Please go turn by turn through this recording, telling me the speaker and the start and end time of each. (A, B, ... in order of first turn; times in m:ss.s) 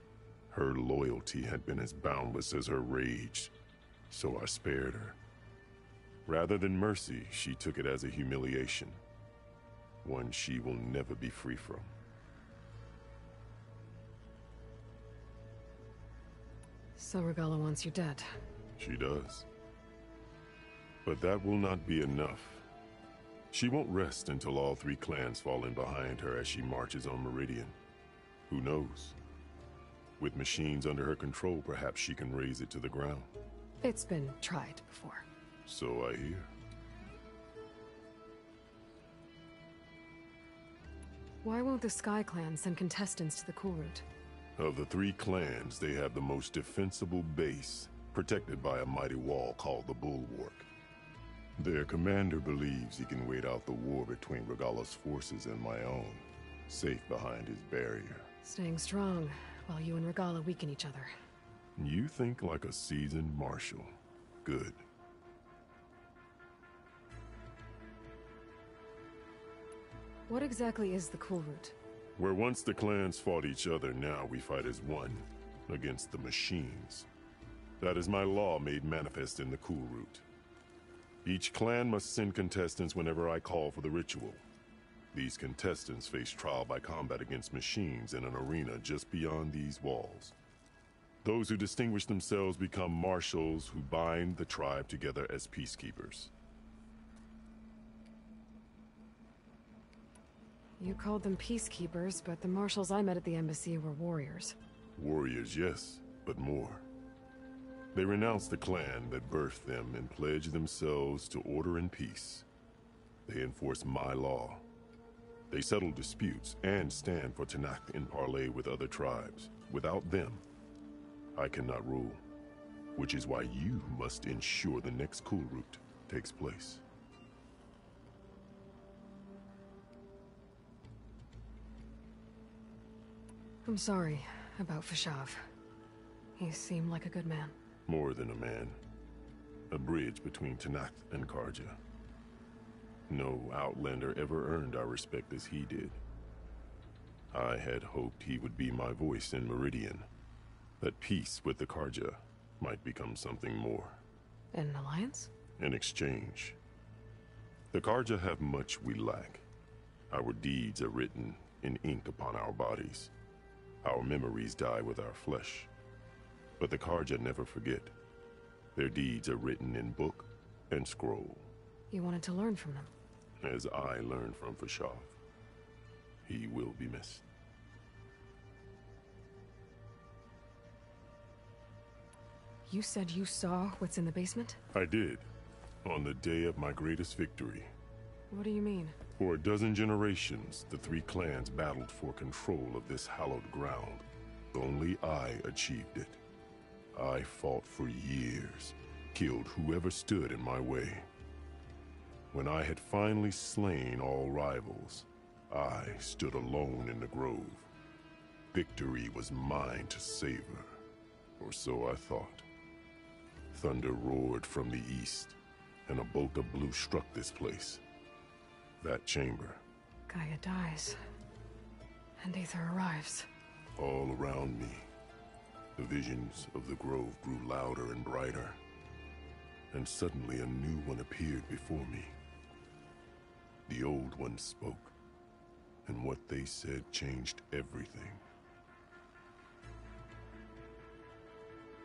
0:00.5-0:03.5 A
0:04.1-0:05.2 A
0:06.3-0:09.0 A
0:10.0-0:11.9 A
0:17.0-0:18.3 B
0:18.8-0:19.5 A
0:21.0-0:22.7 A
0:23.5-0:27.8 A
0:28.5-0:29.2 A
0:30.2-0:33.3 A
0:33.8-0:35.2 B
0:35.7-0:36.5 A
0:41.4-0:44.0 B
0:44.6-0:50.7 A
0:51.6-0:58.3 A
0:58.4-1:01.1 B
1:01.8-1:04.8 A
1:10.3-1:11.8 B
1:12.2-1:17.1 A
1:17.8-1:20.2 A
1:21.2-1:24.4 A
1:25.1-1:30.4 A
1:31.2-1:36.3 A
1:40.8-1:44.6 B
1:45.0-1:46.9 A
1:47.9-1:52.5 A
1:53.3-1:54.6 A
1:55.5-2:00.4 A
2:01.4-2:02.2 A
2:03.0-2:06.8 A
2:13.6-2:15.5 B
2:16.4-2:17.6 B
2:17.9-2:18.8 A
2:19.7-2:21.8 A
2:23.1-2:26.0 A
2:27.3-2:30.1 A
2:30.8-2:34.0 A
2:34.5-2:35.3 B
2:35.6-2:36.6 A
2:37.7-2:39.4 A
2:40.1-2:43.1 A
2:43.8-2:45.7 A
2:46.6-2:47.9 A
2:48.8-2:51.5 A
2:51.9-2:52.9 B
2:53.4-2:55.2 A
2:56.3-2:57.2 A
3:02.7-3:04.6 B
3:04.7-3:05.3 A
3:05.8-3:07.7 A
3:08.3-3:09.0 B
3:09.2-3:16.2 A
3:16.9-3:21.1 A
3:22.3-3:27.7 A
3:28.5-3:30.8 A
3:31.4-3:32.5 A
3:33.5-3:35.4 A
3:35.9-3:37.8 A
3:38.8-3:39.6 A
3:40.1-3:41.0 B
3:42.2-3:43.3 B
3:43.8-3:44.9 A
3:45.8-3:48.6 A
3:49.7-3:52.2 A
3:53.7-3:54.9 A
3:55.8-3:58.2 A